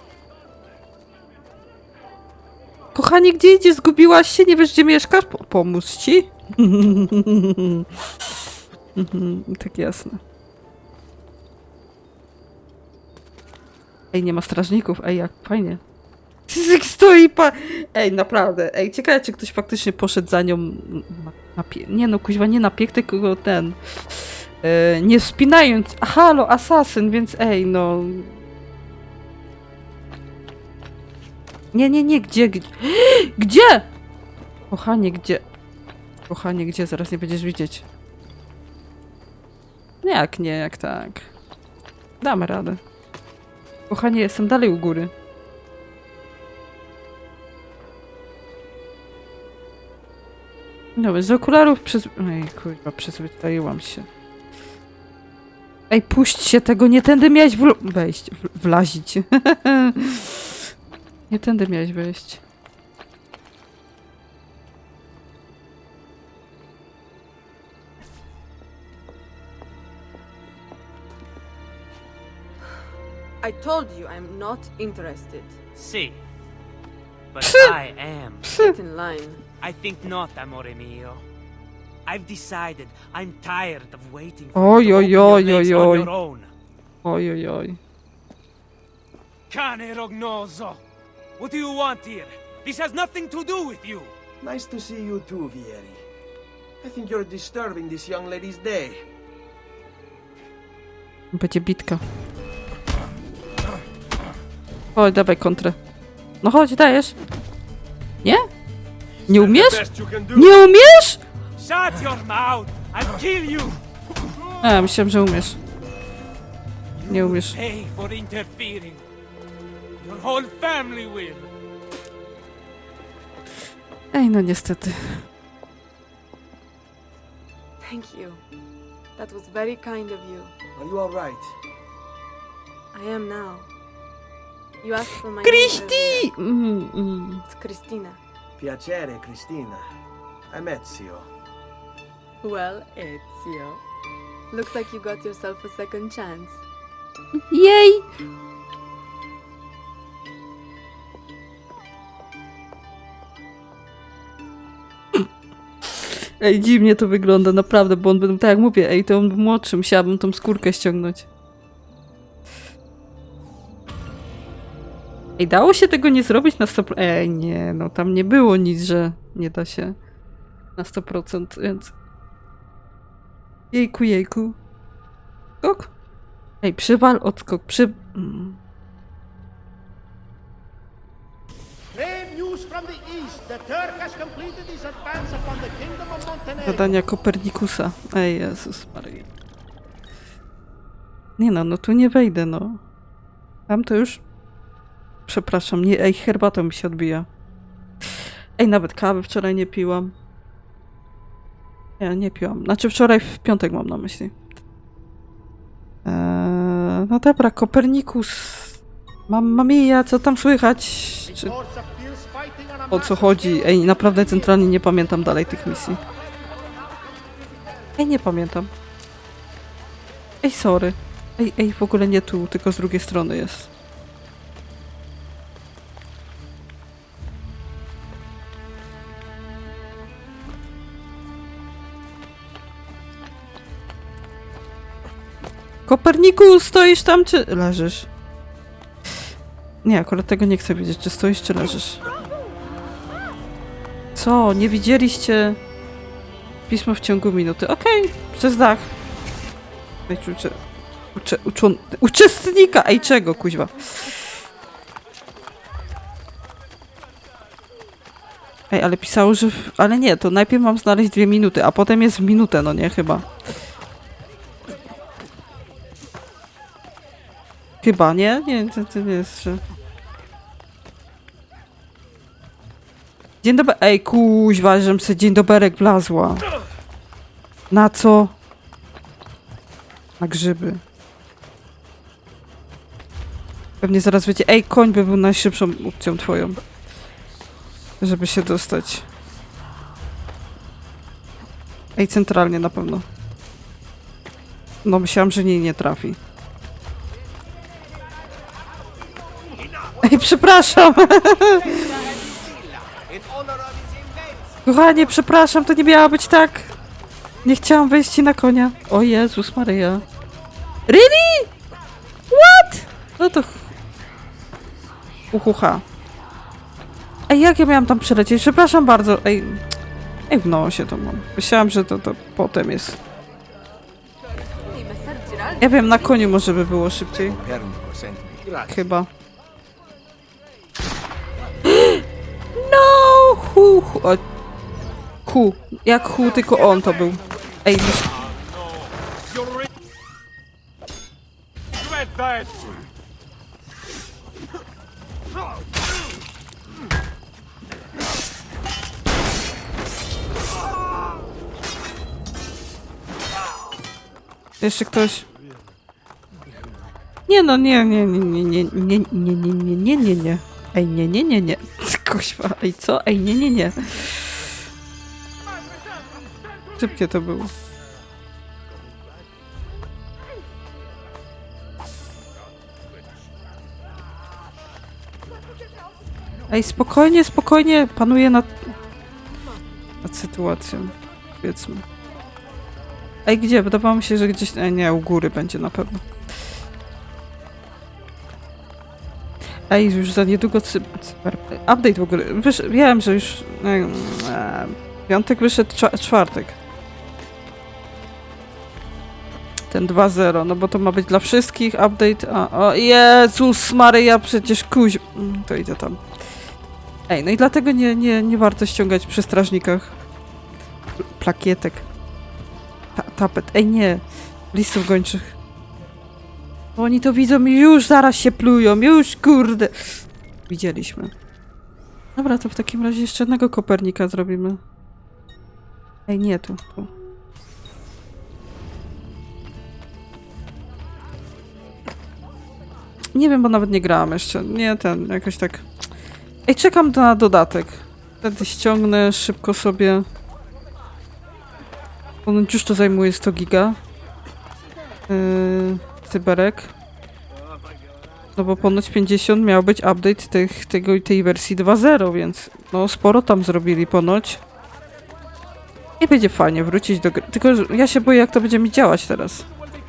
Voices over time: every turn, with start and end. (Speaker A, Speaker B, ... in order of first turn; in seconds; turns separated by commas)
Speaker A: 2.9-7.9, Speaker A: 8.9-10.2, Speaker A: 14.1-15.8, Speaker A: 16.5-28.4, Speaker A: 31.7-33.9, Speaker A: 34.7-35.4, Speaker A: 36.3-37.8, Speaker A: 40.0-41.3, Speaker A: 42.2-42.8, Speaker A: 43.9-45.1, Speaker A: 51.0-54.1, Speaker A: 55.9-60.4, Speaker A: 61.3-62.4, Speaker B: 73.4-75.6, Speaker C: 75.7-76.2, Speaker C: 77.3-78.5, Speaker A: 77.4-77.8, Speaker A: 78.4-78.7, Speaker B: 78.5-79.4, Speaker C: 79.6-81.2, Speaker C: 82.0-86.5, Speaker A: 84.5-86.1, Speaker A: 87.0-87.8, Speaker C: 89.5-90.8, Speaker C: 91.4-94.1, Speaker D: 94.4-96.0, Speaker D: 96.8-99.0, Speaker A: 101.3-102.0, Speaker A: 104.9-105.8, Speaker A: 106.4-107.2, Speaker A: 108.2-108.5, Speaker D: 109.3-110.6, Speaker A: 109.3-111.2, Speaker C: 111.6-113.8, Speaker A: 114.6-115.6, Speaker C: 117.0-119.0, Speaker A: 117.1-117.6, Speaker C: 120.0-121.5, Speaker A: 124.1-125.2, Speaker B: 127.8-128.4, Speaker B: 129.2-130.5, Speaker D: 130.8-131.6, Speaker B: 132.9-133.7, Speaker B: 134.8-136.3, Speaker A: 135.4-137.4, Speaker B: 137.5-138.2, Speaker D: 138.6-139.8, Speaker D: 140.5-141.3, Speaker B: 142.4-143.8, Speaker B: 144.5-146.6, Speaker A: 147.5-148.1, Speaker A: 156.1-161.3, Speaker A: 165.4-169.9, Speaker A: 170.8-171.9, Speaker A: 173.7-174.6, Speaker A: 175.6-175.9, Speaker A: 176.6-178.6, Speaker A: 186.6-189.2, Speaker A: 191.4-192.8, Speaker A: 193.7-194.2, Speaker A: 195.3-197.2, Speaker A: 198.6-200.1, Speaker A: 202.0-204.3, Speaker A: 206.0-211.6, Speaker A: 212.9-216.0, Speaker A: 218.0-218.7, Speaker A: 220.4-223.7, Speaker A: 235.8-238.1, Speaker A: 239.8-242.0, Speaker A: 244.1-245.6, Speaker A: 246.7-248.9, Speaker A: 250.1-250.6, Speaker A: 251.1-254.2, Speaker A: 258.7-263.3, Speaker A: 267.8-269.6, Speaker A: 273.4-276.4, Speaker A: 277.7-278.3, Speaker A: 280.2-280.8, Speaker A: 283.8-286.6, Speaker A: 288.0-289.1, Speaker A: 291.9-293.0, Speaker A: 294.8-296.2, Speaker A: 300.0-302.1, Speaker D: 302.8-304.1, Speaker A: 304.6-306.7, Speaker A: 307.4-310.0, Speaker A: 310.9-311.5, Speaker A: 312.3-313.6, Speaker A: 315.3-315.8, Speaker A: 317.3-319.6, Speaker A: 320.3-323.0, Speaker B: 324.6-326.4, Speaker A: 325.6-327.4, Speaker D: 327.4-328.6, Speaker A: 328.7-329.1, Speaker A: 331.6-332.0, Speaker A: 332.6-334.2, Speaker A: 335.2-338.1, Speaker A: 354.6-355.2, Speaker A: 357.3-364.4, Speaker A: 366.8-367.5, Speaker A: 376.5-378.7, Speaker A: 380.0-381.8, Speaker A: 383.2-386.1, Speaker A: 389.7-396.6, Speaker A: 399.7-406.0, Speaker A: 407.1-409.9, Speaker A: 411.2-411.9, Speaker A: 412.9-415.3, Speaker A: 416.8-421.1, Speaker A: 422.1-424.6, Speaker A: 426.1-426.9, Speaker A: 433.1-435.6, Speaker A: 436.5-440.1, Speaker A: 442.2-443.8, Speaker A: 445.1-446.7, Speaker A: 448.4-454.4, Speaker A: 456.0-459.5